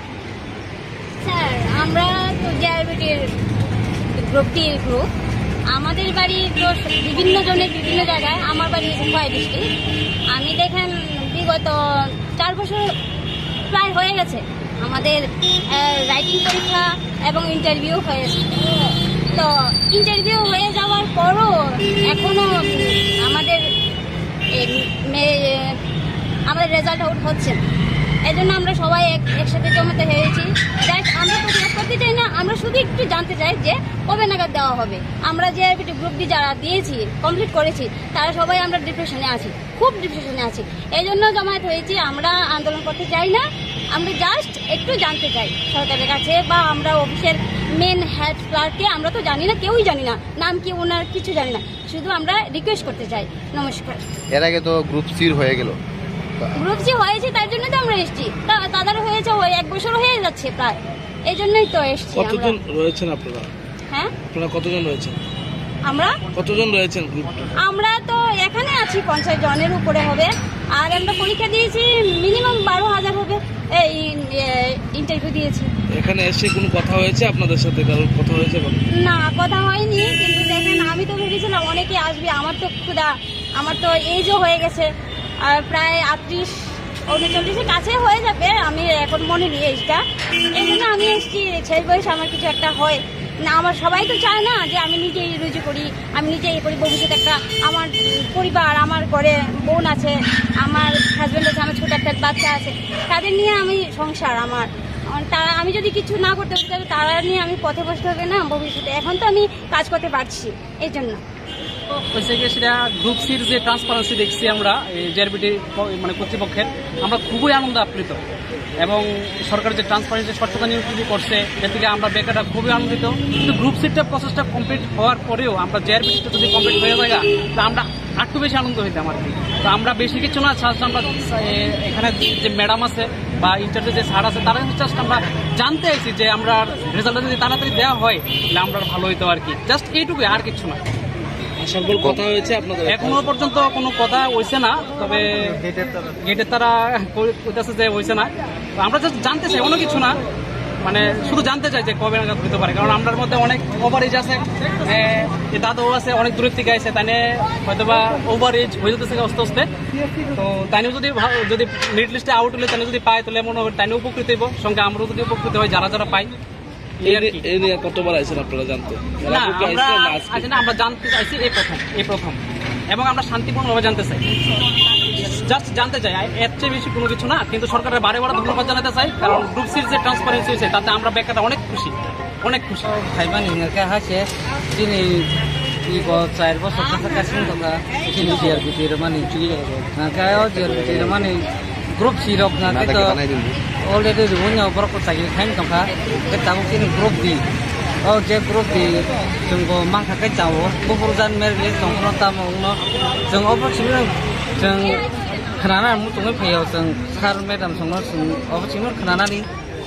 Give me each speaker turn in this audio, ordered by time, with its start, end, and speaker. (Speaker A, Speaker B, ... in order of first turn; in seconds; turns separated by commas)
Speaker A: 1.2-3.3, Speaker A: 4.2-5.1, Speaker A: 5.7-9.7, Speaker A: 10.3-12.9, Speaker A: 13.7-23.6, Speaker A: 24.6-25.8, Speaker A: 26.5-27.6, Speaker A: 28.2-54.1, Speaker B: 54.3-55.8, Speaker A: 56.5-62.6, Speaker C: 62.1-63.5, Speaker C: 64.3-65.2, Speaker A: 65.8-66.2, Speaker C: 66.3-67.5, Speaker A: 67.6-75.7, Speaker C: 75.9-78.8, Speaker A: 79.0-84.9, Speaker A: 85.4-90.0, Speaker A: 90.5-111.2, Speaker D: 112.1-118.2, Speaker D: 118.8-140.8, Speaker C: 141.6-143.2, Speaker D: 142.9-150.2, Speaker D: 150.8-159.7, Speaker D: 160.3-166.3, Speaker D: 167.0-167.4, Speaker C: 167.0-170.6, Speaker D: 169.3-174.3, Speaker D: 175.1-182.9, Speaker E: 182.8-185.3, Speaker E: 185.8-189.3, Speaker C: 189.4-189.9, Speaker E: 189.9-193.2, Speaker B: 190.7-191.1, Speaker B: 192.7-193.6, Speaker E: 193.7-197.4, Speaker E: 198.0-209.5